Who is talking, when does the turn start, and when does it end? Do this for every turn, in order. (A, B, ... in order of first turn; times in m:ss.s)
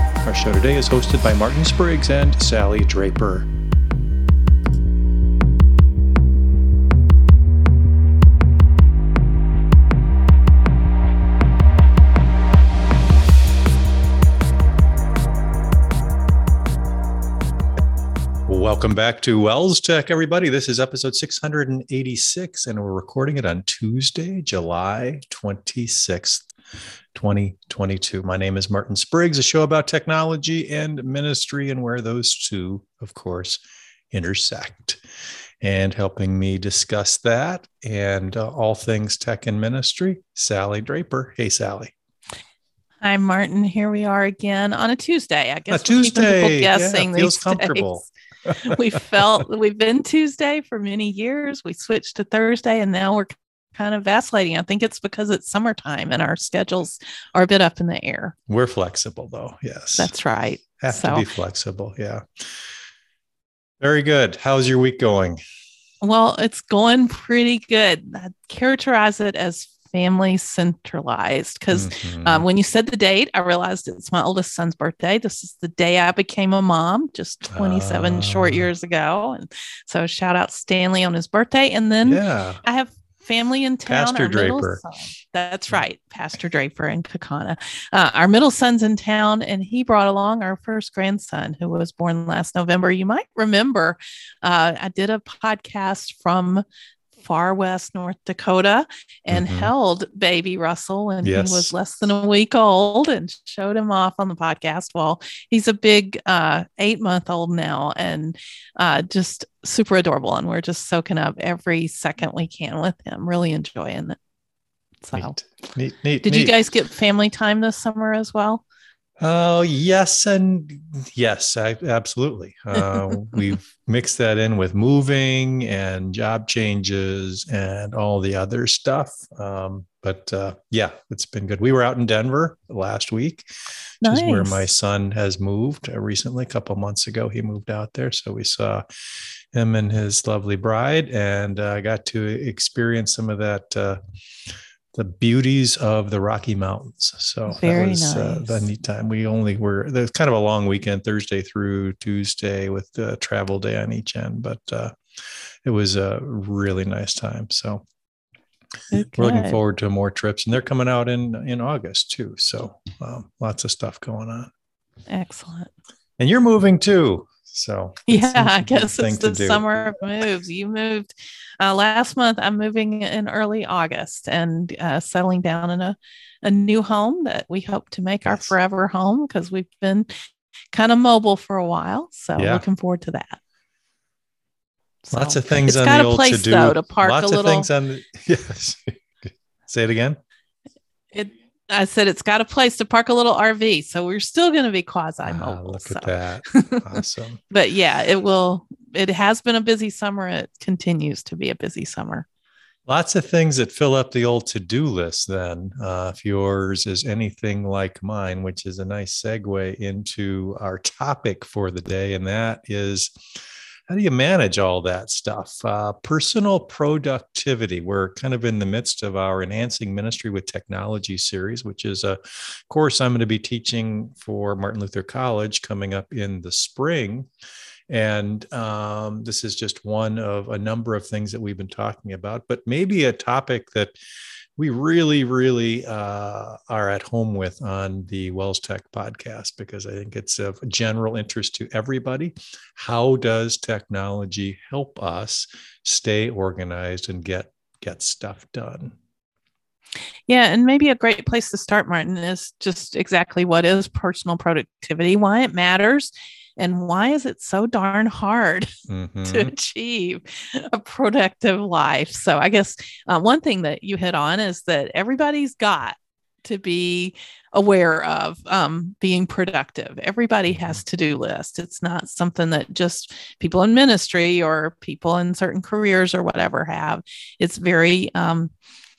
0:00.2-0:03.5 A
0:18.5-0:26.5 A
0:27.1-0:35.0 A
0:35.6-0:41.9 A
0:43.0-0:48.1 B
0:45.7-0:49.2 A
0:48.6-0:58.4 B
0:58.5-1:00.1 A
1:00.0-1:01.2 B
1:00.8-1:02.7 A
1:03.8-1:05.4 A
1:06.0-1:36.6 B
1:11.7-1:12.4 A
1:17.5-1:18.7 A
1:22.0-1:22.6 A
1:23.9-1:24.8 A
1:37.2-1:54.2 B
1:39.3-1:39.7 A
1:41.2-1:41.7 A
1:55.0-1:55.4 B
1:55.1-1:56.5 A
1:56.2-1:58.6 B
1:59.2-2:13.5 A
2:14.0-2:18.8 A
2:14.0-2:14.7 B
2:19.5-2:24.0 A
2:24.9-2:35.0 A
2:27.5-2:28.6 B
2:35.6-2:37.8 A
2:38.9-2:39.6 B
2:38.9-2:44.5 A
2:45.1-2:45.7 B
2:46.2-2:50.0 A
2:48.1-3:00.1 B
2:58.2-2:58.5 A
3:00.7-3:03.4 B
3:02.4-3:02.6 A
3:05.0-3:07.7 B
3:05.1-3:10.2 A
3:11.1-3:22.2 B
3:15.2-3:17.4 A
3:22.9-3:33.2 A
3:33.9-3:47.3 A
3:47.9-3:53.9 A
3:54.6-4:09.0 A
4:10.3-4:18.7 B
4:18.9-4:19.5 A
4:19.2-4:38.5 B
4:30.5-4:30.8 A